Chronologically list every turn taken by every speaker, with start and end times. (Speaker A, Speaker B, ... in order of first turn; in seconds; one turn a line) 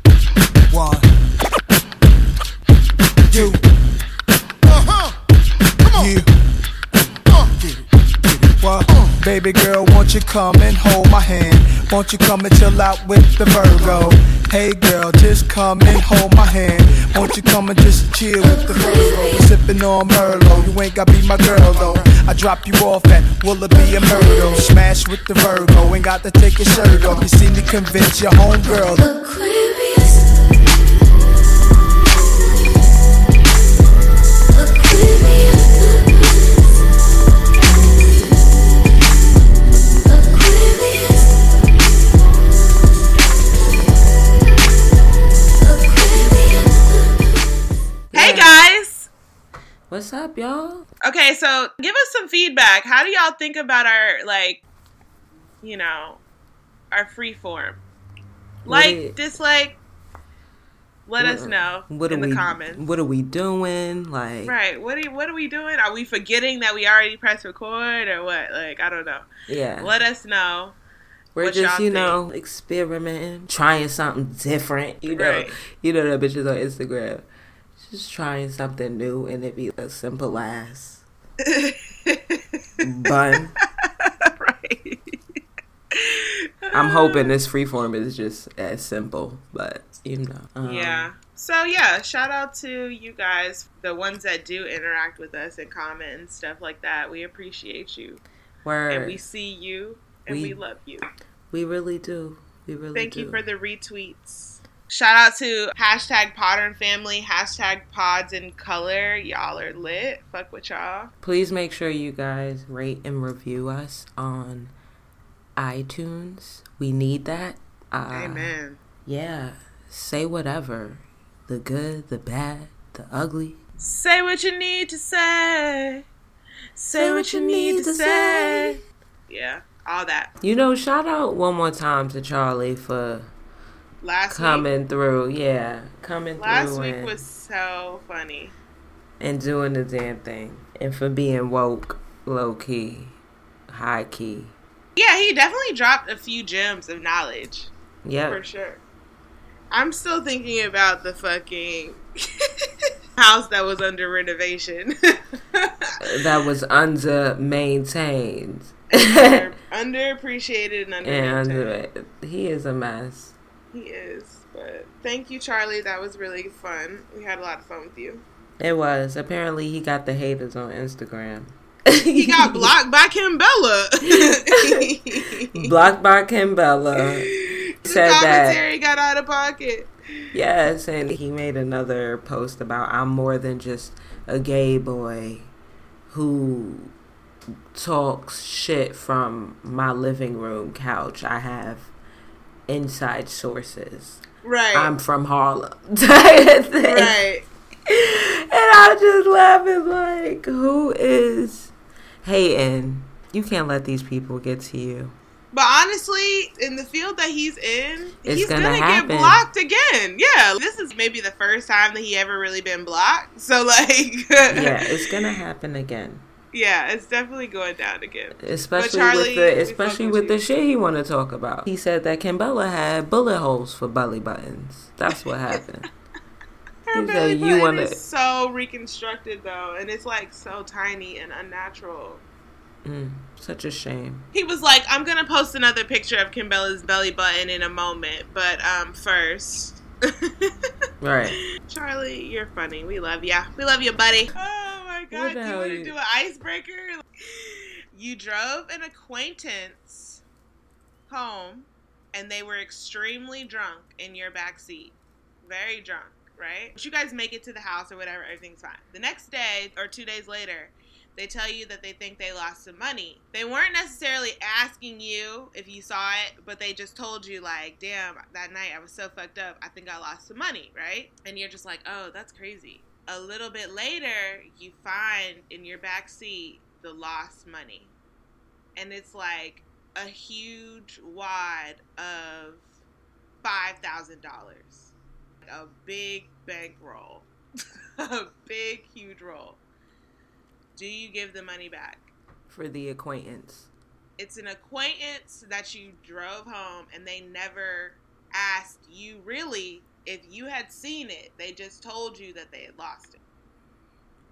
Speaker A: 0.7-1.1
Speaker A: 3.3-3.6
Speaker A: 5.9-6.3
Speaker A: 8.5-29.1
Speaker B: 18.4-19.5
Speaker B: 28.7-30.4
Speaker B: 34.5-36.5
Speaker B: 40.0-41.3
Speaker B: 45.6-47.3
Speaker C: 48.1-48.7
Speaker D: 48.1-49.1
Speaker C: 49.9-50.9
Speaker D: 51.0-54.6
Speaker D: 55.6-56.2
Speaker D: 56.9-57.8
Speaker D: 58.6-59.8
Speaker C: 58.7-59.2
Speaker D: 61.1-62.8
Speaker C: 61.2-64.6
Speaker D: 64.5-69.3
Speaker C: 69.5-69.9
Speaker D: 69.8-70.8
Speaker C: 71.3-81.0
Speaker D: 71.4-72.2
Speaker D: 75.1-75.5
Speaker D: 81.4-82.6
Speaker C: 82.8-83.6
Speaker D: 83.8-85.4
Speaker D: 85.9-87.3
Speaker C: 86.7-91.1
Speaker D: 90.6-98.2
Speaker C: 98.6-99.2
Speaker D: 98.9-101.0
Speaker C: 100.3-100.6
Speaker C: 101.5-103.4
Speaker D: 103.0-111.1
Speaker C: 111.2-114.7
Speaker C: 115.6-118.5
Speaker D: 118.1-118.8
Speaker C: 119.0-123.6
Speaker D: 123.8-126.0
Speaker D: 126.8-130.3
Speaker C: 127.0-128.8
Speaker C: 130.4-133.3
Speaker D: 134.0-134.7
Speaker C: 134.3-137.2
Speaker D: 136.4-138.6
Speaker C: 139.2-143.2
Speaker C: 143.7-144.6
Speaker D: 145.0-147.7
Speaker C: 148.1-148.4
Speaker D: 148.3-148.8
Speaker D: 149.7-156.0
Speaker C: 156.0-159.4
Speaker D: 158.9-161.8
Speaker C: 161.0-163.3
Speaker D: 163.7-168.2
Speaker C: 168.6-172.7
Speaker D: 172.2-175.7
Speaker C: 174.1-177.3
Speaker D: 177.2-179.9
Speaker C: 177.8-178.6
Speaker C: 180.3-185.5
Speaker C: 186.1-186.9
Speaker C: 187.7-191.9
Speaker C: 192.7-197.2
Speaker D: 194.4-194.9
Speaker D: 196.8-197.5
Speaker C: 197.9-205.2
Speaker D: 205.5-215.4
Speaker C: 208.2-209.4
Speaker C: 214.5-216.2
Speaker D: 216.5-220.4
Speaker C: 218.4-225.9
Speaker D: 226.9-232.2
Speaker C: 226.9-228.0
Speaker C: 232.8-234.3
Speaker D: 234.3-240.7
Speaker C: 241.0-241.4
Speaker D: 241.3-250.2
Speaker C: 245.1-245.9
Speaker D: 251.1-277.9
Speaker D: 278.8-282.6
Speaker D: 283.4-284.9
Speaker D: 285.4-287.3
Speaker D: 288.0-289.6
Speaker D: 290.8-292.1
Speaker C: 292.5-293.7
Speaker D: 294.2-303.2